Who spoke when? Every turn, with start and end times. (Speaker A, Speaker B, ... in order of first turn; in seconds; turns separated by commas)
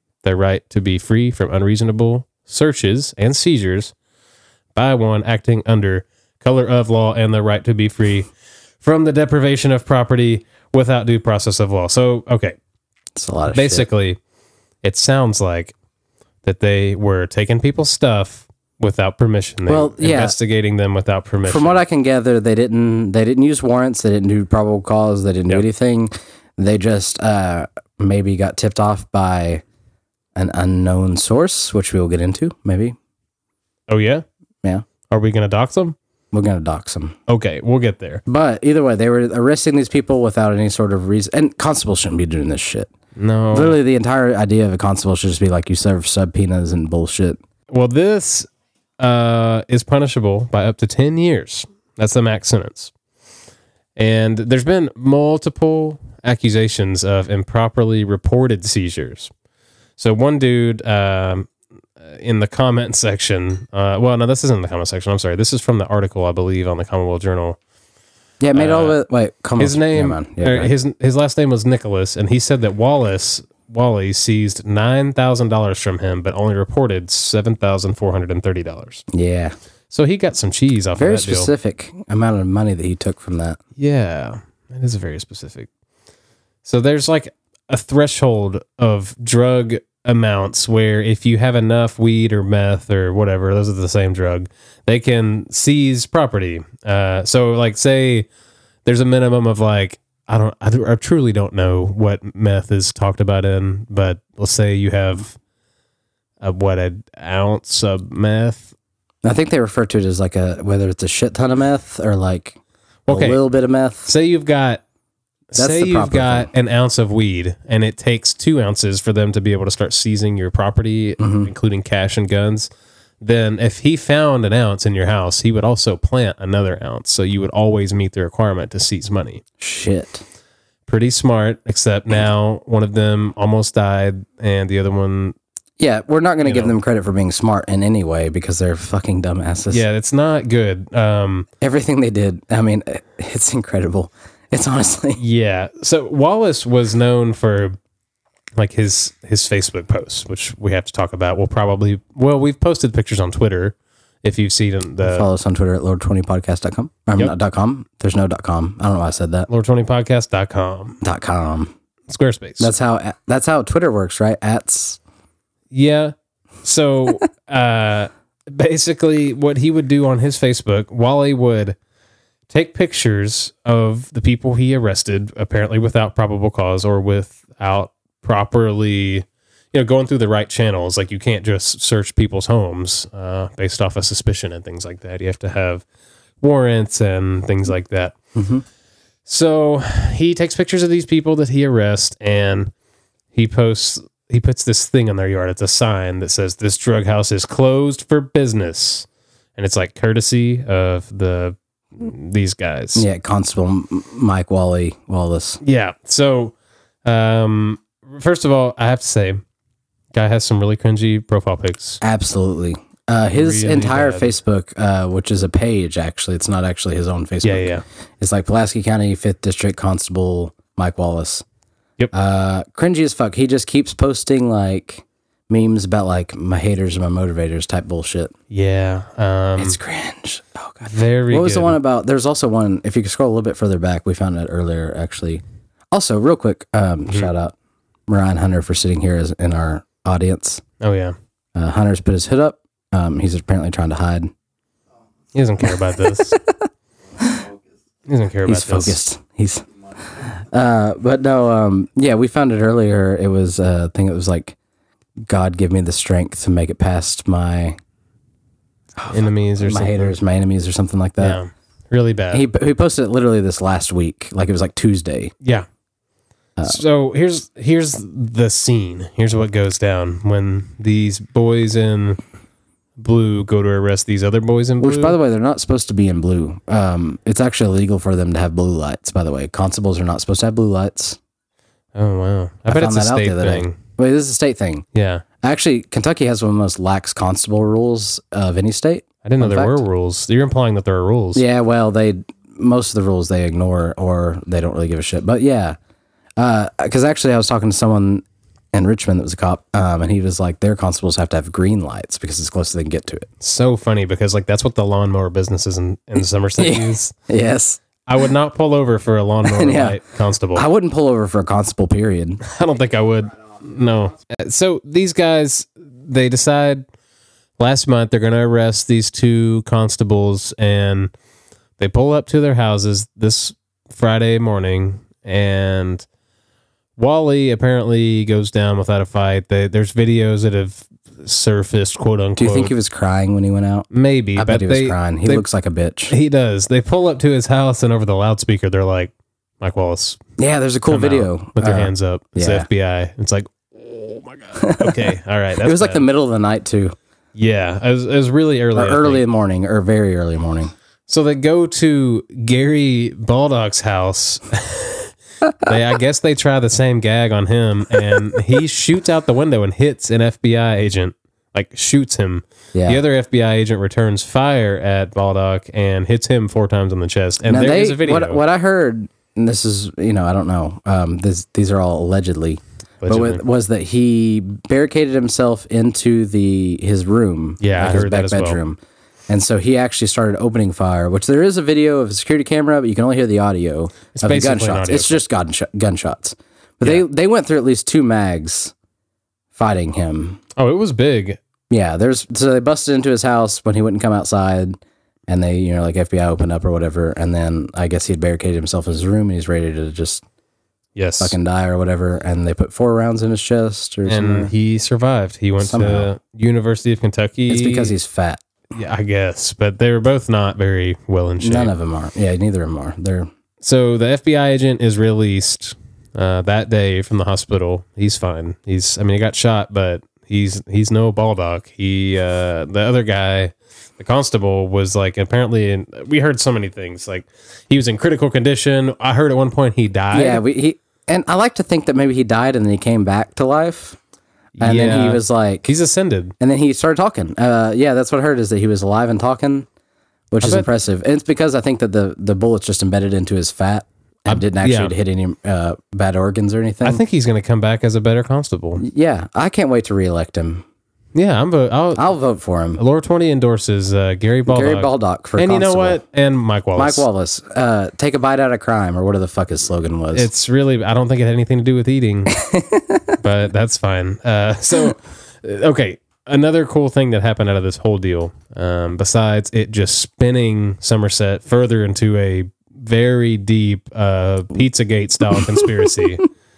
Speaker A: 0.2-3.9, Speaker A: 4.8-8.3, Speaker A: 8.8-12.6, Speaker B: 13.2-13.9, Speaker A: 13.5-14.2, Speaker A: 14.8-15.7, Speaker A: 16.4-21.8, Speaker B: 19.7-20.4, Speaker B: 21.4-29.6, Speaker B: 30.4-33.0, Speaker A: 33.9-34.2, Speaker A: 35.1-36.0, Speaker B: 36.3-37.2, Speaker A: 37.3-38.2, Speaker B: 38.3-42.9, Speaker A: 43.2-43.8, Speaker B: 43.5-47.4, Speaker A: 47.7-48.5, Speaker A: 49.0-52.9, Speaker A: 54.0-59.3, Speaker A: 60.0-61.5, Speaker A: 62.0-67.6, Speaker B: 68.4-70.7, Speaker A: 68.5-69.0, Speaker A: 69.6-79.1, Speaker B: 79.1-79.5, Speaker A: 79.9-81.5, Speaker B: 81.0-83.6, Speaker A: 83.8-85.7, Speaker A: 86.6-98.3, Speaker A: 98.8-105.4, Speaker A: 106.4-108.7, Speaker B: 109.2-114.1, Speaker A: 113.1-113.4, Speaker A: 114.1-114.8, Speaker A: 115.5-122.7, Speaker B: 115.6-116.5, Speaker B: 121.2-121.5, Speaker A: 123.2-129.4, Speaker B: 129.6-130.2, Speaker A: 130.9-135.3, Speaker B: 135.8-139.8, Speaker A: 136.4-136.8, Speaker A: 139.7-141.5, Speaker B: 141.6-145.2, Speaker A: 145.2-147.8, Speaker A: 148.6-155.3, Speaker B: 155.0-159.5, Speaker A: 159.5-161.0, Speaker B: 161.0-161.7, Speaker A: 162.1-162.7, Speaker B: 162.6-165.0, Speaker A: 165.7-171.8, Speaker A: 172.5-185.8, Speaker A: 186.4-188.2, Speaker B: 188.3-188.6, Speaker A: 189.3-192.7, Speaker A: 193.3-203.1, Speaker B: 202.9-205.6, Speaker A: 205.6-206.5, Speaker A: 207.1-209.4, Speaker A: 210.1-212.0, Speaker B: 212.0-221.4, Speaker A: 213.3-214.3, Speaker A: 217.4-217.8, Speaker B: 222.1-228.3, Speaker A: 228.5-229.8, Speaker B: 229.6-237.5, Speaker A: 230.9-231.8, Speaker B: 238.1-240.6, Speaker A: 240.8-241.2, Speaker B: 241.6-244.3, Speaker A: 245.3-246.4, Speaker B: 246.0-246.6, Speaker B: 247.2-247.5, Speaker A: 248.1-249.0, Speaker B: 248.5-254.6, Speaker B: 255.3-257.8, Speaker B: 259.0-261.4, Speaker A: 259.1-260.1, Speaker A: 261.2-262.4, Speaker B: 262.3-265.3, Speaker A: 266.6-272.2, Speaker A: 273.0-275.2, Speaker B: 274.8-281.2, Speaker A: 281.9-283.8, Speaker B: 282.7-284.9, Speaker A: 284.9-285.2, Speaker B: 285.4-289.8, Speaker A: 289.2-291.4, Speaker B: 291.4-295.8, Speaker B: 296.4-303.3, Speaker A: 303.4-307.1, Speaker B: 306.6-307.8, Speaker A: 308.1-310.6, Speaker B: 309.4-310.0, Speaker B: 310.6-312.4, Speaker A: 312.4-316.9, Speaker A: 317.6-321.1, Speaker A: 321.8-326.1, Speaker A: 327.0-332.7, Speaker B: 332.4-336.1, Speaker A: 333.9-335.5, Speaker A: 336.1-340.2, Speaker B: 340.4-342.7, Speaker A: 340.9-346.0, Speaker B: 344.6-346.9, Speaker A: 347.4-349.2, Speaker B: 348.7-350.7, Speaker A: 351.1-368.4, Speaker B: 362.7-363.0, Speaker B: 367.4-388.7, Speaker A: 373.0-373.4, Speaker A: 377.6-378.6, Speaker A: 384.1-385.2, Speaker B: 389.5-390.4, Speaker A: 390.6-391.4, Speaker B: 391.7-394.8, Speaker B: 395.3-400.2, Speaker A: 401.0-401.4, Speaker B: 401.2-404.5, Speaker A: 404.1-407.9, Speaker B: 405.6-406.1, Speaker B: 407.5-408.4, Speaker A: 408.7-411.7, Speaker B: 411.4-413.3, Speaker A: 413.6-430.4, Speaker B: 430.1-434.0, Speaker A: 434.6-436.4, Speaker B: 434.6-435.7, Speaker B: 436.4-439.7, Speaker B: 440.3-447.0, Speaker A: 440.4-440.7, Speaker A: 444.3-444.9, Speaker A: 446.8-448.8, Speaker B: 448.8-450.6, Speaker A: 451.1-452.1, Speaker B: 452.0-452.8, Speaker A: 452.8-457.1, Speaker B: 454.5-456.0, Speaker B: 456.8-460.3, Speaker A: 460.1-462.4, Speaker B: 462.4-463.1, Speaker A: 463.2-476.3, Speaker B: 475.4-475.9